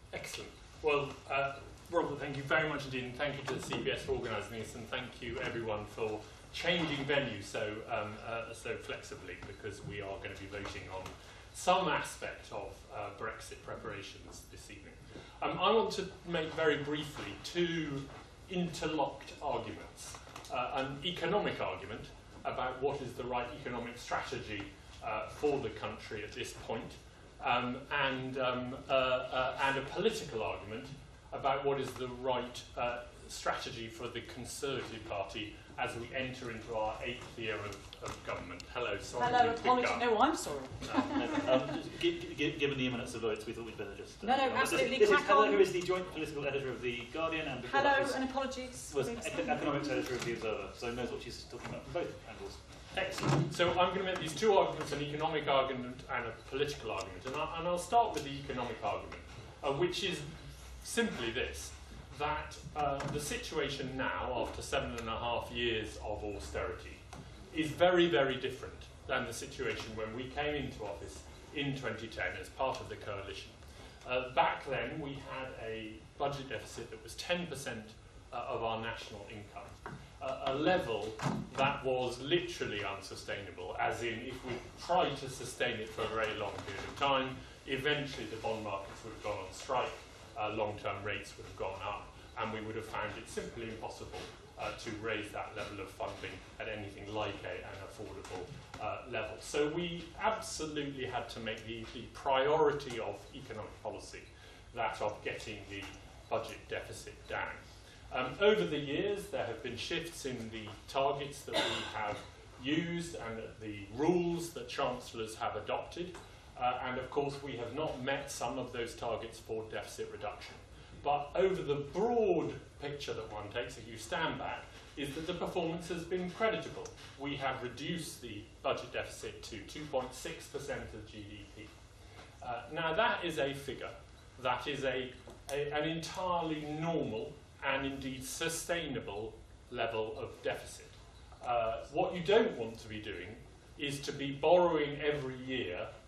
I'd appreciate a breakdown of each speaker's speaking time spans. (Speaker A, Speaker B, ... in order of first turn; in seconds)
Speaker A: 0.1-40.1, 40.9-41.2, 53.2-131.7, 132.4-145.9
Speaker B: 39.2-41.5, 44.2-45.7, 47.7-49.9
Speaker C: 41.0-53.3